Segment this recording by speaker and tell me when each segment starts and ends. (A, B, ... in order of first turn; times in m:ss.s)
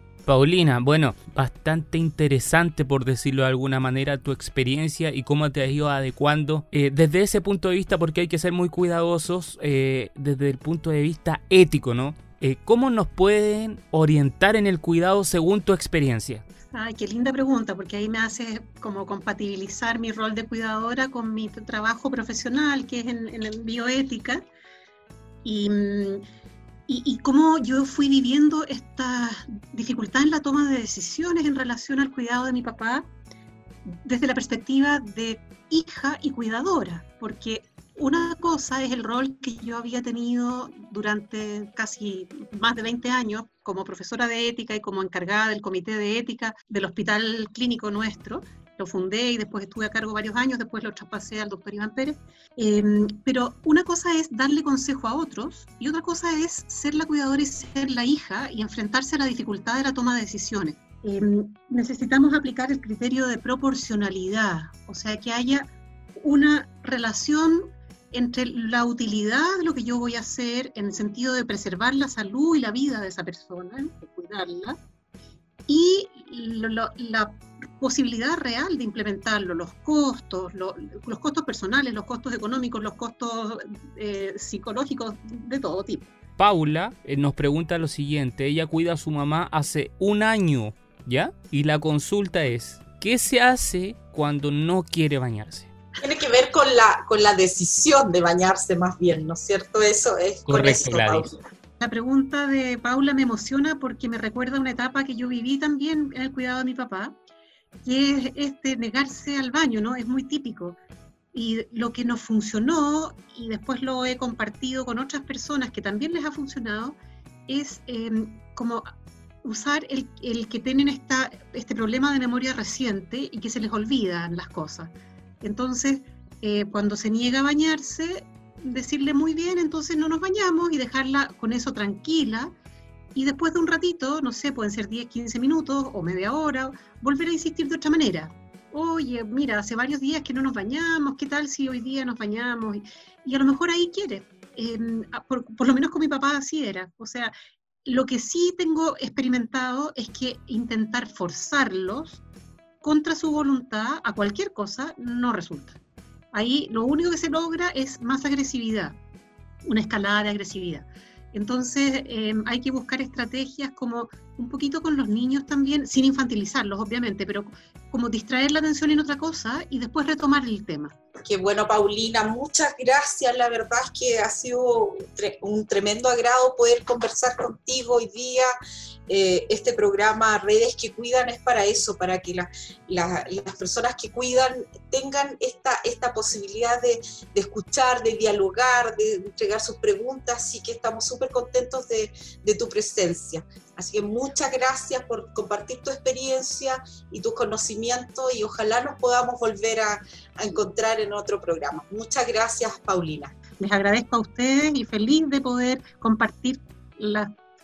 0:00.3-0:16.4 A
0:16.7-0:24.4 B
0:25.4-0:26.2 B
0:26.9-0:33.1 B
0:33.8-1:14.8 B
1:15.7-1:26.1 B
1:26.4-1:35.7 A
1:36.0-1:41.4 C
1:40.4-1:41.3 A
1:41.8-1:47.1 B
1:47.8-1:50.8 B
1:51.3-1:58.9 B
1:59.4-2:12.5 B
2:13.1-2:27.3 B
2:27.8-2:32.2 B
2:32.8-2:35.8 B
2:36.3-2:39.0 B
2:39.6-2:50.9 B
2:51.2-2:58.5 C
2:59.1-3:23.4 C
3:23.6-3:27.4 B